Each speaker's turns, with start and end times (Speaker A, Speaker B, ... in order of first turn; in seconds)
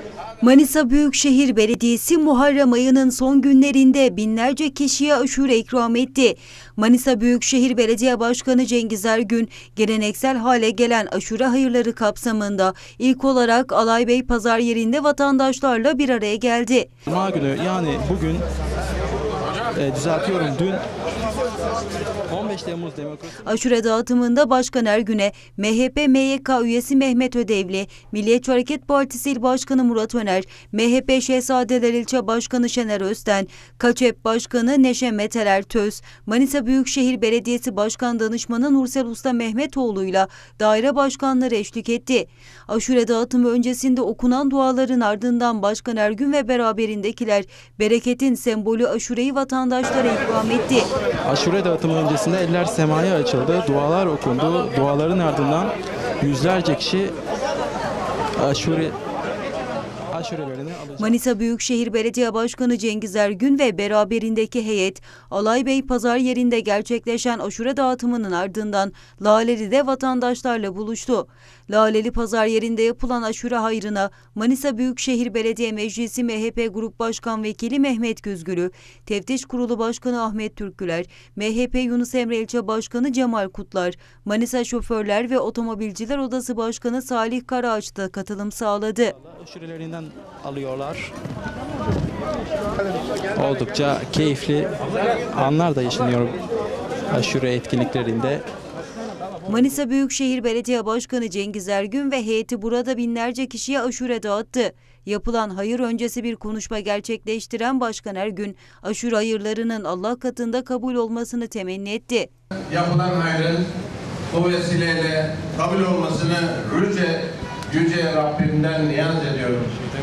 Speaker A: 0.4-16.9, 23.5-50.9, 61.0-89.2, 99.5-112.3
Speaker B: 17.1-18.4, 19.7-20.8, 22.3-23.4, 51.3-57.1, 58.4-58.9, 60.1-61.1, 89.2-91.1, 93.3-94.8, 95.3-96.4, 97.1-98.4
Speaker C: 112.7-113.7, 114.3-119.8